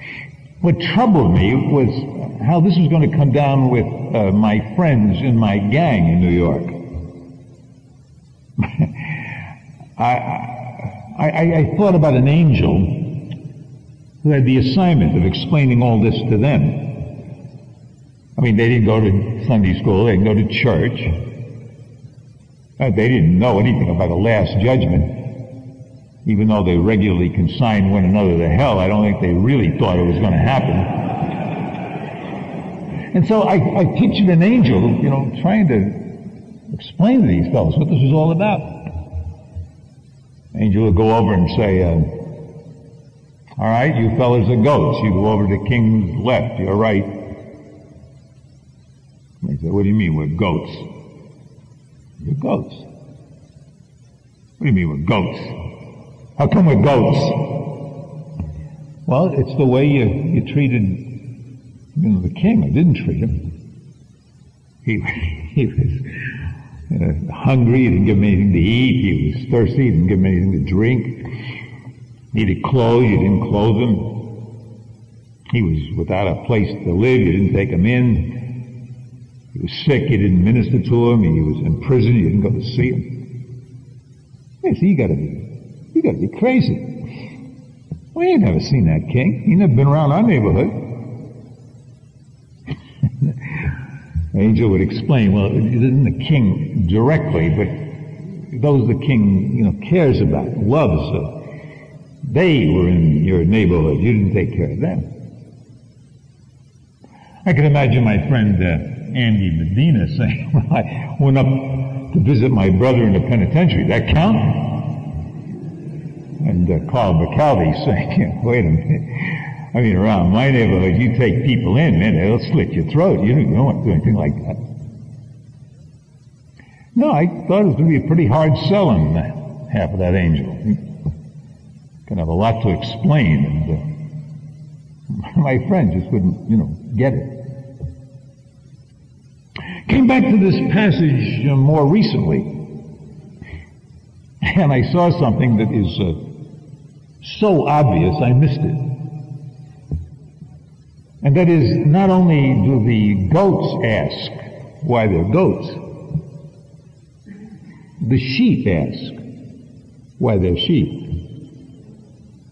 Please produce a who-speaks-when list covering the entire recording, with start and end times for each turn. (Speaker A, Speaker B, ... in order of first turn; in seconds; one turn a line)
Speaker A: 0.6-6.9
Speaker A: 8.6-9.3
Speaker A: 10.0-13.3
Speaker A: 14.2-17.2
Speaker A: 18.4-21.2
Speaker A: 22.8-25.5
Speaker A: 26.2-31.1
Speaker A: 33.1-39.1
Speaker A: 40.5-42.4
Speaker A: 43.6-47.4
Speaker A: 49.4-50.9
Speaker A: 52.2-52.9
Speaker A: 54.6-55.7
Speaker A: 56.4-57.9
Speaker A: 59.1-61.3
Speaker A: 62.0-63.5
Speaker A: 64.8-66.1
Speaker A: 66.9-71.3
Speaker A: 72.3-74.5
Speaker A: 75.5-78.7
Speaker A: 79.5-83.3
Speaker A: 84.6-87.1
Speaker A: 88.2-91.2
Speaker A: 93.2-93.7
Speaker A: 94.3-101.4
Speaker A: 102.2-105.1
Speaker A: 107.5-115.2
Speaker A: 116.4-124.6
Speaker A: 127.0-130.9
Speaker A: 132.1-133.9
Speaker A: 135.1-137.5
Speaker A: 139.9-142.8
Speaker A: 144.4-146.3
Speaker A: 147.2-149.1
Speaker A: 151.2-155.9
Speaker A: 158.0-159.2
Speaker A: 160.2-161.2